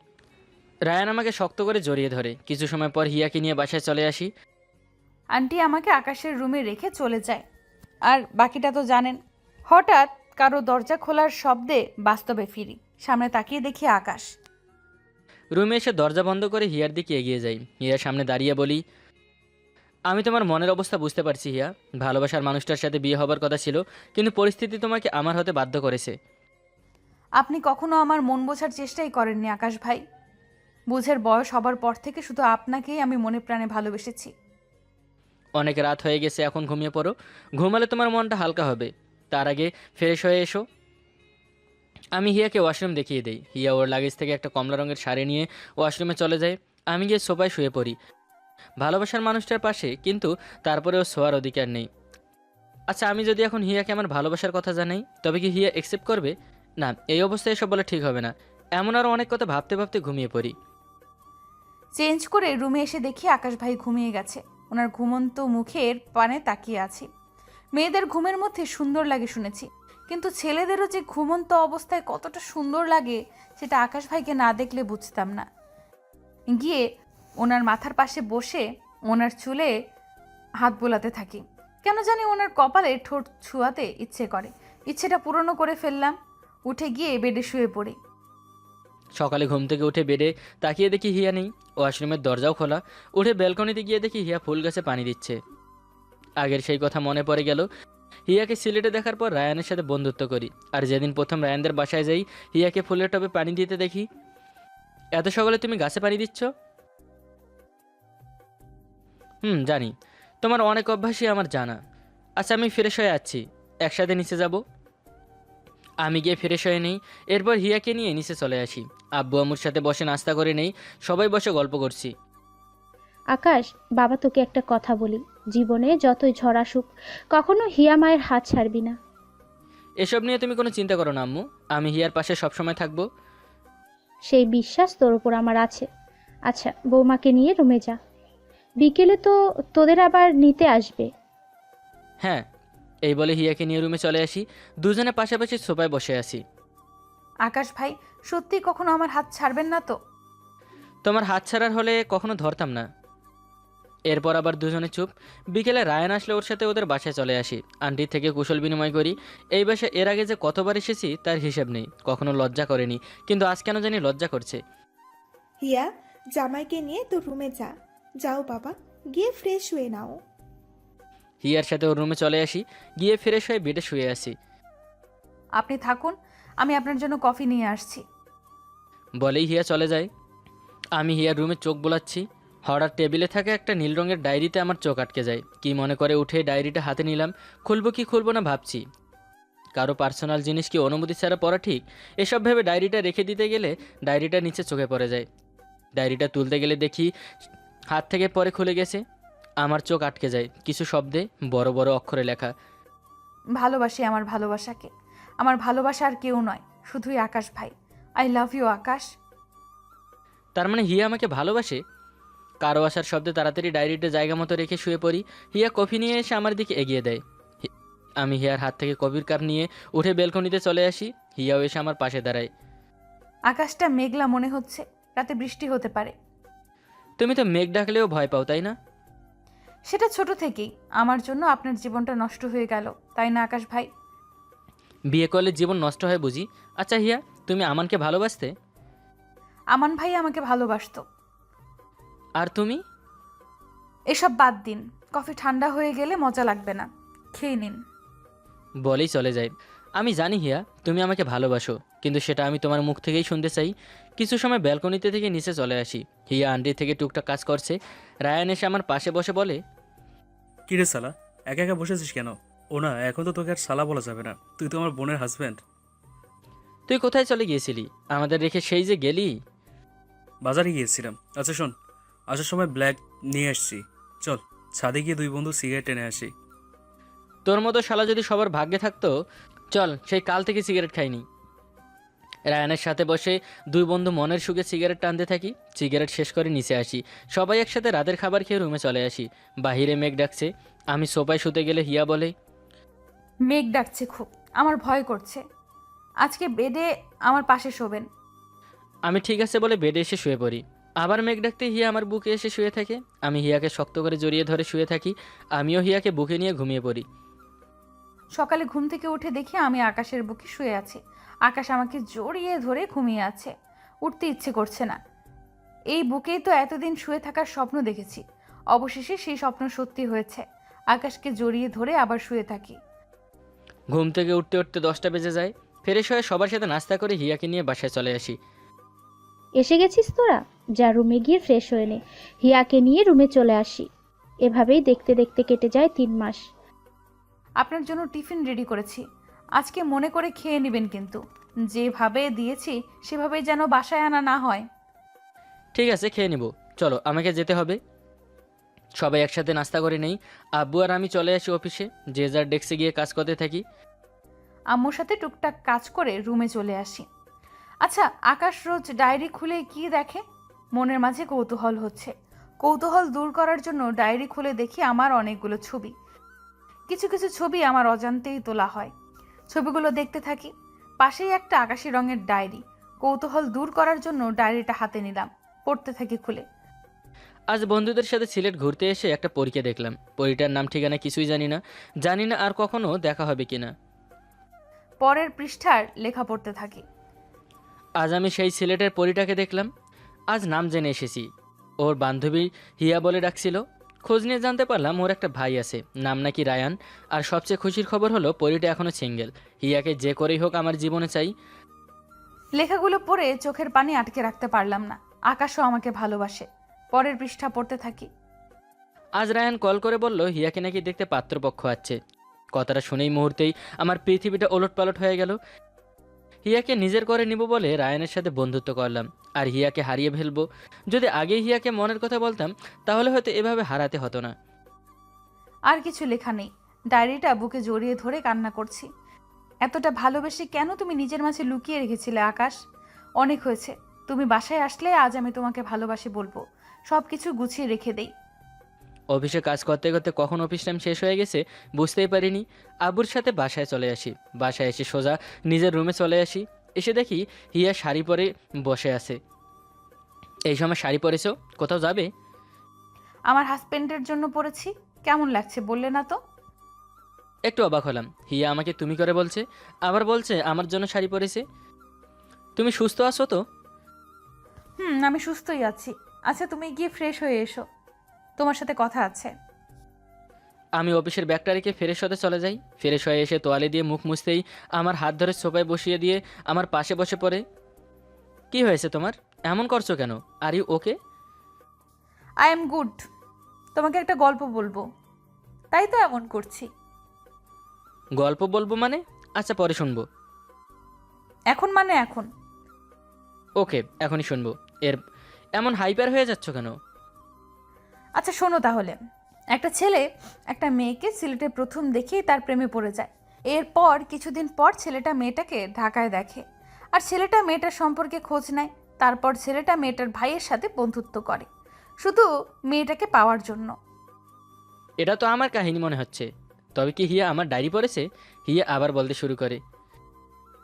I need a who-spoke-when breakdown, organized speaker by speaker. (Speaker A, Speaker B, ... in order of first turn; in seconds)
Speaker A: 0.9-4.3, 15.5-18.8, 20.1-26.1, 35.6-40.6, 42.1-48.0, 48.8-51.9, 52.9-60.5, 89.2-95.4, 96.4-97.7, 98.3-104.1, 105.2-106.5, 109.4-109.9, 110.4-111.8, 112.4-114.6, 116.0-122.1, 130.0-133.1, 143.1-146.4, 151.0-152.8, 154.1-164.6, 171.4-174.3, 179.2-180.1, 181.0-188.8, 189.8-195.2, 195.9-197.1, 197.9-199.0, 199.6-202.5, 210.6-211.8, 212.6-217.2, 218.2-222.5, 227.2-228.7, 235.1-238.5, 242.4-242.8, 248.8-259.6, 266.9-269.3, 277.4-279.1, 279.7-281.2, 282.5-292.3, 299.1-307.0, 323.9-328.4, 345.7-347.8, 349.0-353.6, 377.5-383.7, 388.0-389.7, 390.3-391.3, 391.8-401.3, 409.2-412.0, 412.6-415.4, 416.4-424.3, 439.1-449.2, 450.5-452.1, 457.5-461.4, 462.6-463.4, 470.8-477.4, 478.5-480.9, 488.2-490.0, 493.6-495.0, 495.6-496.7, 515.0-519.6
Speaker B: 5.3-7.4, 8.1-14.3, 27.4-30.0, 30.9-34.3, 62.0-67.1, 67.8-75.5, 76.5-76.8, 77.4-79.7, 80.6-86.1, 86.7-88.0, 147.4-150.0, 175.6-178.0, 203.6-209.1, 223.5-226.1, 229.9-233.9, 239.7-241.0, 244.1-247.8, 293.5-295.4, 296.2-298.1, 308.4-313.5, 314.0-315.0, 315.9-322.8, 337.6-339.0, 339.6-341.2, 341.7-344.6, 354.7-357.1, 357.8-360.2, 360.7-365.9, 366.9-368.9, 369.5-376.4, 385.0-386.8, 402.6-408.1, 425.7-428.9, 429.6-432.6, 433.2-438.1, 453.3-456.2, 464.8-467.6, 468.4-469.3, 482.4-483.0, 483.7-484.8, 485.7-486.7, 491.5-492.3, 498.2-499.0, 499.5-506.4, 506.9-511.5, 512.0-513.7
Speaker C: 123.3-128.9, 134.3-135.8, 136.5-138.0, 138.8-141.1, 329.6-333.9, 334.4-336.4
Speaker D: 165.6-167.7, 168.2-170.2
Speaker E: 260.7-265.6, 270.4-271.7, 272.3-276.3